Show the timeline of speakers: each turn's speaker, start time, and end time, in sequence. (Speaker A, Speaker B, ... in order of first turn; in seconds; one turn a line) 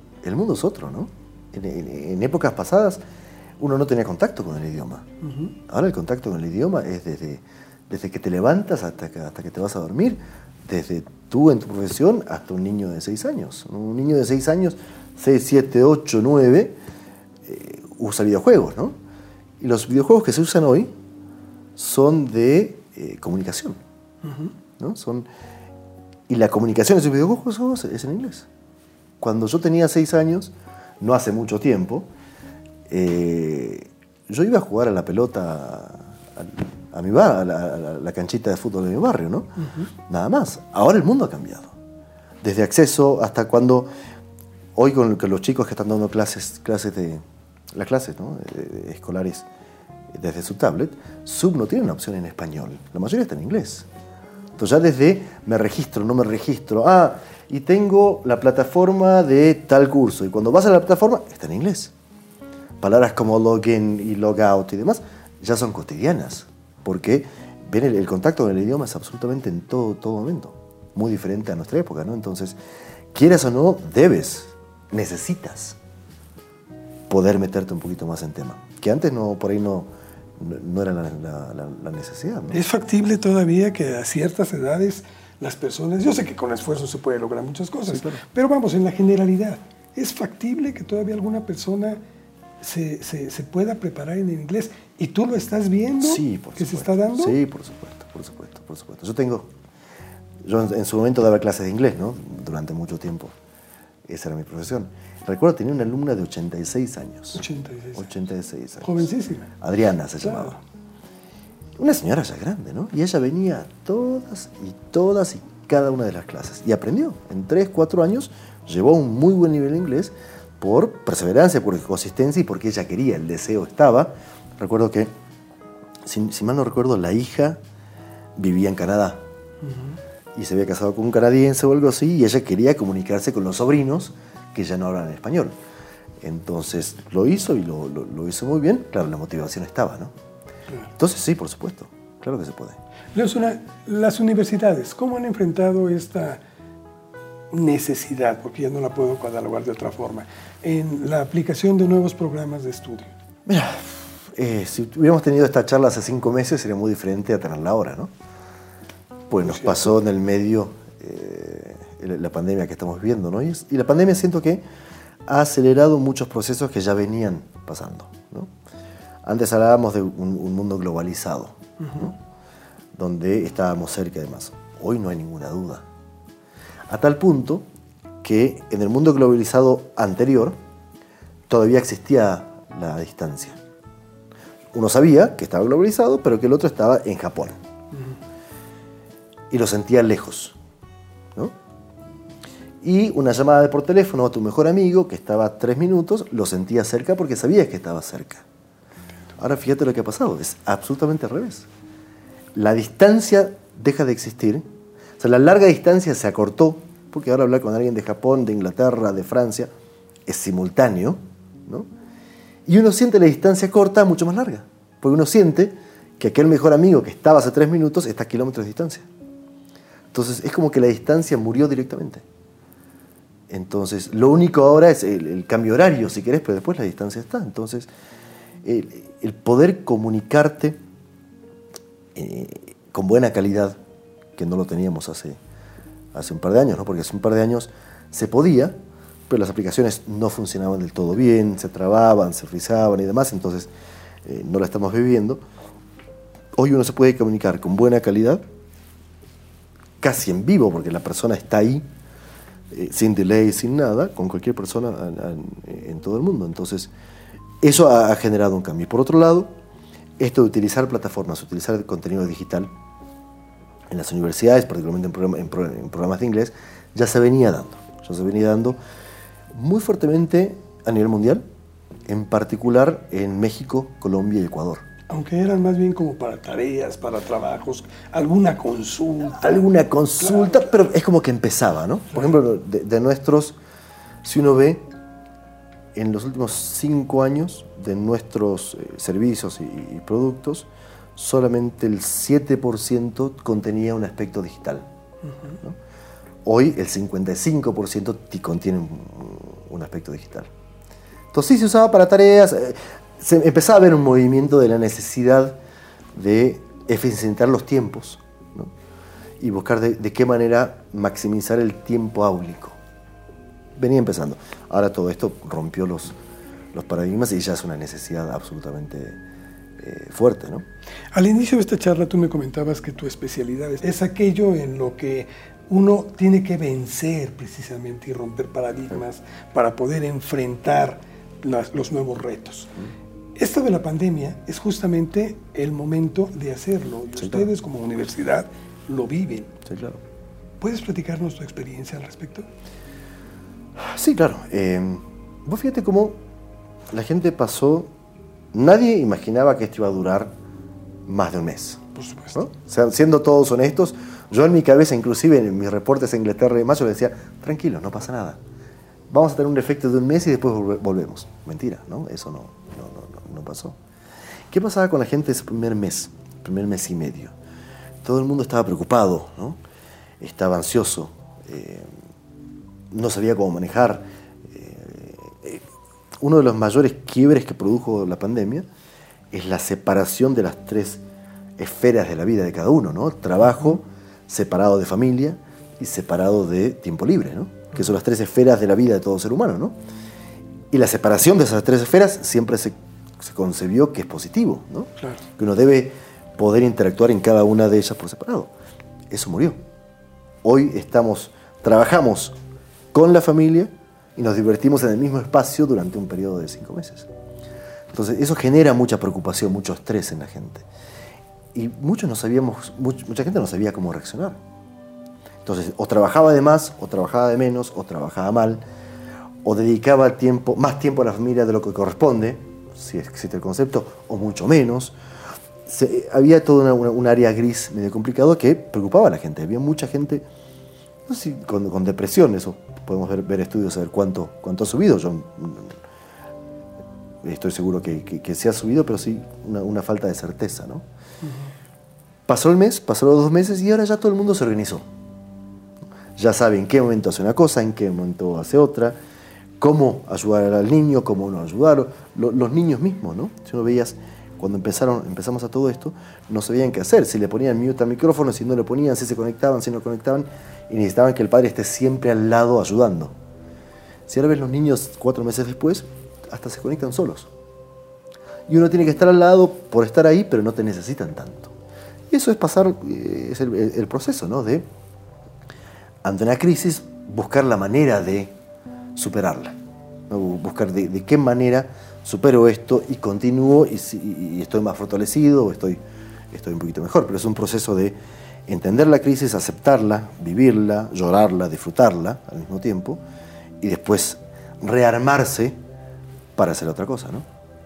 Speaker A: 0.2-3.0
Speaker A: 3.6-5.0
Speaker B: 5.2-5.5
Speaker A: 5.7-16.8
Speaker A: 17.4-18.9
Speaker A: 19.6-20.9
Speaker A: 21.8-23.8
Speaker B: 24.2-24.5
Speaker A: 24.8-25.3
Speaker A: 26.3-28.5
Speaker A: 29.2-32.1
Speaker A: 32.9-39.5
Speaker B: 39.6-39.9
Speaker A: 40.1-41.7
Speaker A: 42.4-43.9
Speaker A: 44.7-47.2
Speaker A: 47.7-49.5
Speaker A: 50.1-53.9
Speaker A: 54.5-61.9
Speaker A: 62.8-72.6
Speaker A: 73.1-75.8
Speaker A: 77.1-82.6
Speaker B: 82.5-92.0
Speaker A: 87.9-88.2
Speaker B: 92.6-97.4
Speaker A: 96.0-99.5
Speaker A: 100.4-103.3
Speaker A: 104.1-107.4
Speaker B: 107.3-108.1
Speaker A: 107.9-109.0
Speaker B: 108.8-109.5
Speaker A: 109.6-110.6
Speaker B: 110.2-110.6
Speaker A: 111.8-125.1
Speaker A: 126.0-127.6
Speaker A: 128.3-129.2
Speaker B: 129.6-130.0
Speaker A: 130.3-135.5
Speaker A: 136.2-140.1
Speaker A: 141.0-142.8
Speaker B: 143.1-146.4
Speaker B: 147.5-153.1
Speaker A: 153.4-158.1
Speaker A: 159.3-164.6
Speaker B: 159.4-159.8
Speaker A: 165.2-168.5
Speaker A: 169.2-172.2
Speaker A: 172.9-175.8
Speaker A: 176.9-177.7
Speaker A: 178.2-180.6
Speaker A: 181.5-183.6
Speaker A: 184.7-187.6
Speaker A: 189.5-190.6
Speaker A: 192.8-198.4
Speaker A: 199.4-201.7
Speaker A: 202.5-204.6
Speaker A: 205.2-209.7
Speaker A: 210.2-211.9
Speaker A: 212.7-219.1
Speaker A: 220.1-222.2
Speaker A: 223.5-227.9
Speaker A: 228.6-230.8
Speaker A: 232.1-233.8
Speaker A: 234.3-235.4
Speaker A: 236.1-238.8
Speaker A: 239.3-243.7
Speaker A: 244.2-245.4
Speaker A: 246.6-248.4
Speaker A: 250.0-251.8
Speaker A: 252.7-256.9
Speaker A: 257.6-259.5
Speaker A: 260.2-262.7
Speaker A: 263.9-268.8
Speaker A: 269.5-271.4
Speaker A: 272.1-274.8
Speaker B: 275.1-279.6
Speaker A: 279.4-283.6
Speaker A: 284.2-284.8
Speaker A: 285.9-294.9
Speaker A: 296.4-300.5
Speaker A: 301.3-305.6
Speaker A: 306.1-308.7
Speaker A: 309.4-312.8
Speaker A: 313.8-316.1
Speaker A: 316.7-319.2
Speaker A: 319.8-320.6
Speaker B: 321.1-332.7
Speaker B: 333.4-339.6
Speaker A: 337.2-337.5
Speaker A: 339.6-340.0
Speaker B: 340.6-342.5
Speaker A: 343.8-346.2
Speaker A: 346.9-347.9
Speaker A: 348.5-350.3
Speaker A: 351.1-358.4
Speaker B: 351.9-352.4
Speaker A: 359.1-363.8
Speaker A: 364.5-367.3
Speaker A: 368.0-369.6
Speaker A: 370.2-371.9
Speaker A: 372.9-375.6
Speaker A: 376.2-378.6
Speaker A: 379.3-381.0
Speaker A: 381.6-389.7
Speaker A: 390.7-398.5
Speaker B: 395.0-395.2
Speaker A: 399.1-399.6
Speaker A: 400.4-402.4
Speaker A: 402.9-407.1
Speaker A: 407.9-410.7
Speaker A: 411.5-414.4
Speaker A: 415.4-418.6
Speaker A: 419.4-424.9
Speaker A: 425.6-430.2
Speaker A: 431.1-435.8
Speaker A: 437.2-440.8
Speaker A: 442.3-444.9
Speaker A: 446.1-449.0
Speaker A: 449.6-463.1
Speaker A: 464.1-467.3
Speaker A: 468.5-471.5
Speaker A: 472.1-474.6
Speaker A: 476.0-478.3
Speaker A: 478.9-479.6
Speaker A: 480.1-485.8
Speaker A: 486.3-487.9
Speaker A: 488.5-493.0
Speaker A: 493.6-495.6
Speaker A: 496.4-497.2